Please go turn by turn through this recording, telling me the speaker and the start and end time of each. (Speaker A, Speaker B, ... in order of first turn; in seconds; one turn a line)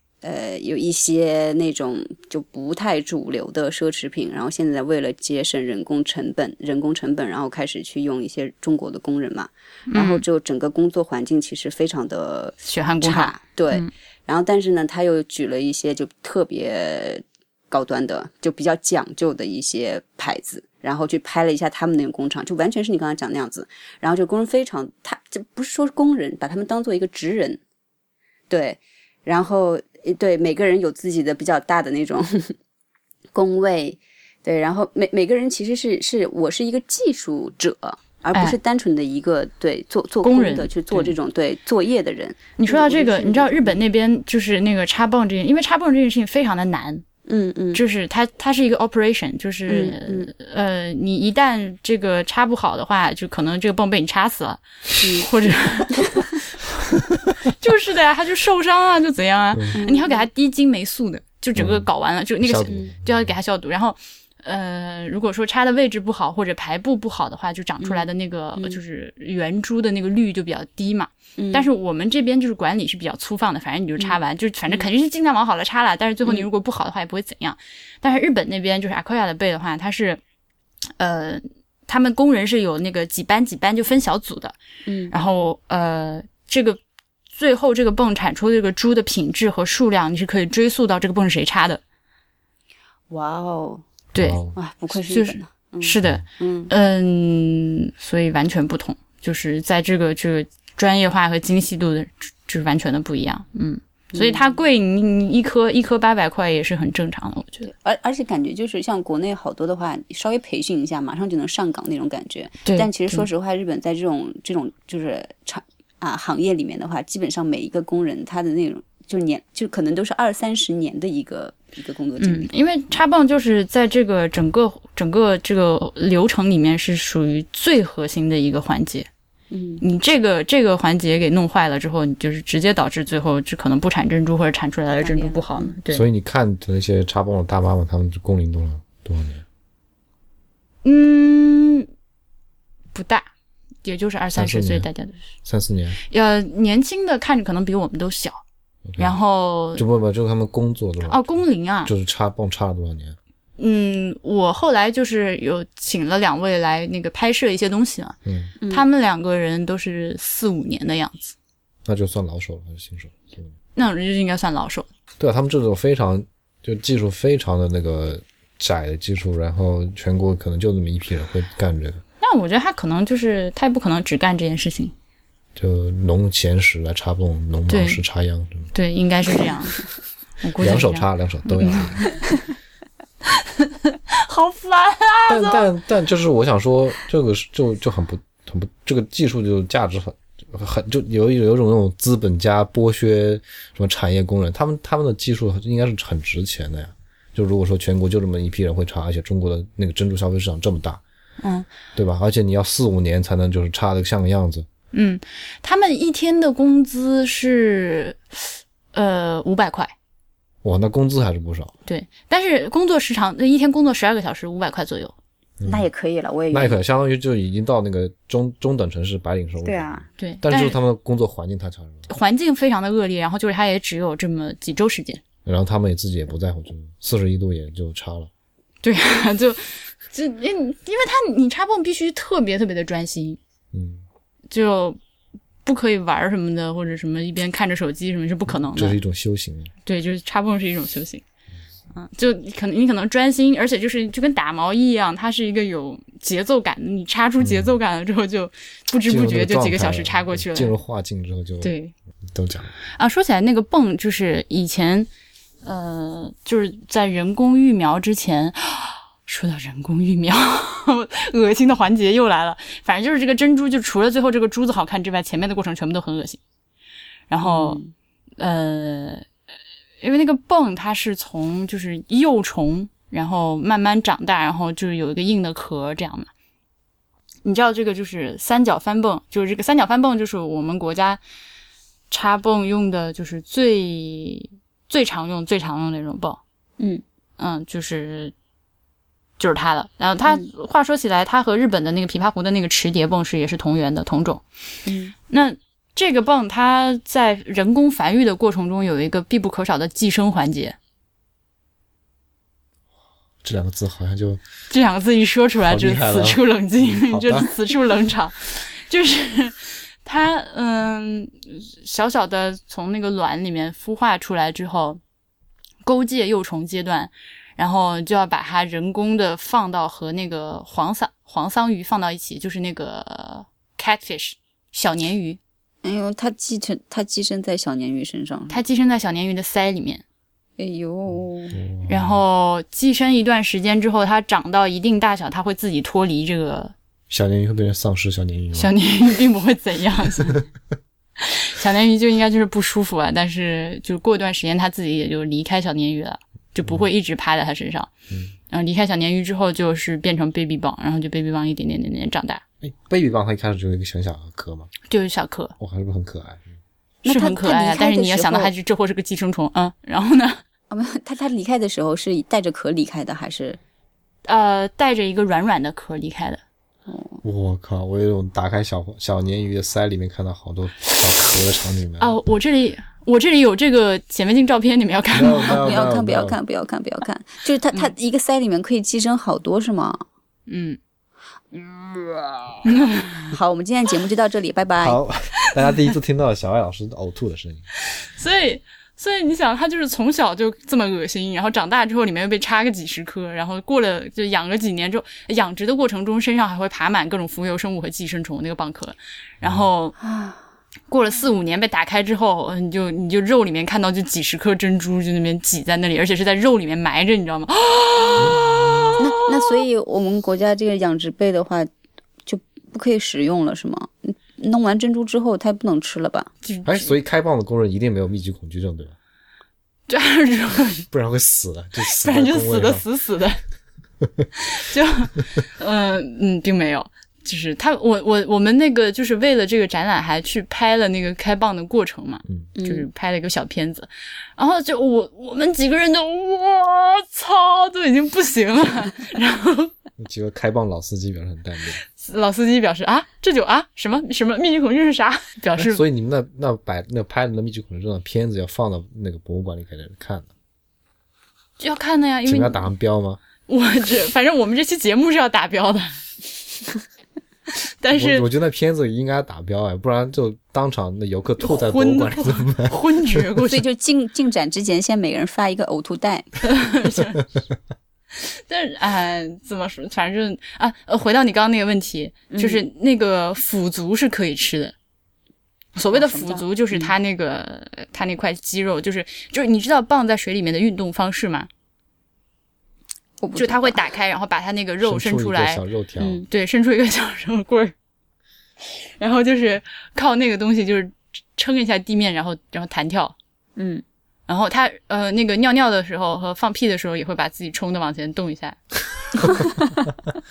Speaker A: 0.2-27.6
Speaker B: 9.9-10.2
Speaker B: 12.6-13.9
Speaker A: 28.5-32.5
Speaker A: 33.3-43.8
Speaker B: 40.2-41.1
Speaker B: 42.6-47.0
Speaker A: 47.3-47.8
Speaker B: 47.7-80.2
Speaker A: 49.7-50.3
Speaker A: 55.0-55.3
Speaker A: 55.9-56.2
Speaker A: 59.8-60.3
Speaker C: 61.6-61.9
Speaker C: 62.4-63.3
Speaker A: 67.8-68.8
Speaker A: 71.4-71.7
Speaker A: 74.0-74.9
Speaker B: 81.0-84.6
Speaker A: 84.9-85.1
Speaker B: 85.1-86.8
Speaker B: 87.3-91.8
Speaker A: 93.1-93.8
Speaker B: 94.1-94.4
Speaker C: 94.2-94.5
Speaker A: 94.5-96.7
Speaker B: 95.0-107.7
Speaker A: 104.1-104.6
Speaker A: 107.7-122.5
Speaker B: 112.7-113.3
Speaker B: 122.2-129.1
Speaker A: 129.5-129.8
Speaker B: 129.8-136.1
Speaker A: 135.0-135.7
Speaker C: 135.9-139.4
Speaker B: 140.8-141.9
Speaker B: 142.9-143.3
Speaker B: 143.8-145.2
Speaker C: 144.3-144.9
Speaker C: 145.4-146.0
Speaker B: 146.1-148.4
Speaker C: 148.9-149.2
Speaker B: 149.0-149.8
Speaker C: 149.8-153.2
Speaker B: 151.1-151.9
Speaker B: 153.6-161.3
Speaker C: 158.3-158.5
Speaker A: 158.6-158.9
Speaker C: 161.8-163.5
Speaker B: 163.8-164.9
Speaker C: 165.2-172.0
Speaker B: 172.2-174.9
Speaker C: 175.6-178.7
Speaker B: 177.7-178.0
Speaker B: 178.7-179.9
Speaker B: 180.4-181.1
Speaker C: 180.6-182.0
Speaker B: 181.6-182.2
Speaker B: 183.3-185.7
Speaker C: 185.3-201.0
Speaker B: 201.4-201.7
Speaker C: 201.9-204.7
Speaker B: 204.9-209.9
Speaker C: 210.6-211.7
Speaker B: 211.9-215.1
Speaker C: 215.6-215.9
Speaker A: 215.7-216.8
Speaker C: 216.5-222.1
Speaker A: 219.6-220.0
Speaker B: 220.2-220.8
Speaker B: 222.1-225.2
Speaker C: 225.4-228.3
Speaker B: 228.8-233.4
Speaker C: 233.7-234.0
Speaker B: 234.5-235.0
Speaker B: 235.7-239.0
Speaker C: 238.7-239.7
Speaker B: 239.9-241.2
Speaker B: 241.9-250.7
Speaker C: 247.4-247.8
Speaker C: 249.1-251.7
Speaker B: 251.6-251.9
Speaker C: 252.3-252.8
Speaker B: 253.0-255.1
Speaker B: 255.6-266.4
Speaker B: 267.3-267.8
Speaker A: 267.4-267.9
Speaker B: 268.4-269.3
Speaker B: 270.0-276.3
Speaker B: 277.4-281.2
Speaker B: 282.1-286.4
Speaker B: 287.4-288.3
Speaker B: 289.4-294.4
Speaker A: 294.9-295.1
Speaker B: 295.3-300.8
Speaker C: 303.4-304.4
Speaker B: 304.7-315.0
Speaker C: 305.6-307.5
Speaker B: 315.9-325.4
Speaker A: 325.8-328.6
Speaker B: 328.5-330.0
Speaker A: 330.6-331.6
Speaker C: 331.5-332.2
Speaker B: 331.9-336.7
Speaker C: 337.1-338.7
Speaker B: 338.6-340.4
Speaker B: 341.2-347.9
Speaker B: 348.5-352.4
Speaker C: 352.6-354.7
Speaker B: 354.9-355.6
Speaker C: 355.6-356.4
Speaker A: 357.0-358.5
Speaker B: 357.1-360.4
Speaker A: 360.7-363.6
Speaker B: 364.3-366.4
Speaker A: 366.9-367.2
Speaker C: 367.2-372.2
Speaker B: 372.0-375.7
Speaker C: 375.1-376.4
Speaker A: 375.4-380.0
Speaker B: 380.5-380.8
Speaker A: 381.6-382.6
Speaker B: 382.6-383.3
Speaker A: 383.2-385.0
Speaker C: 384.8-387.7
Speaker B: 387.9-400.0
Speaker C: 399.4-399.7
Speaker A: 400.0-400.4
Speaker B: 400.9-409.6
Speaker C: 408.2-408.9
Speaker A: 409.0-411.7
Speaker A: 412.2-416.3
Speaker B: 416.4-416.9
Speaker C: 416.6-419.0
Speaker B: 419.9-420.9
Speaker C: 420.9-422.9
Speaker B: 421.8-423.4
Speaker C: 424.0-424.3
Speaker B: 424.4-439.7
Speaker A: 432.6-432.9
Speaker C: 440.0-441.8
Speaker B: 441.9-445.9
Speaker C: 445.6-450.3
Speaker B: 451.6-452.7
Speaker C: 452.3-453.2
Speaker B: 453.5-456.0
Speaker B: 457.6-458.3
Speaker C: 457.9-463.2
Speaker B: 461.4-463.6
Speaker A: 463.5-466.3
Speaker B: 466.4-467.2
Speaker B: 468.1-474.8
Speaker A: 472.3-472.6
Speaker B: 475.8-481.5
Speaker A: 475.9-476.9
Speaker A: 483.2-483.8
Speaker B: 483.4-485.6
Speaker C: 484.8-486.3
Speaker A: 486.0-486.3
Speaker B: 486.3-487.7
Speaker B: 488.6-493.1
Speaker A: 493.6-493.8
Speaker B: 494.3-499.5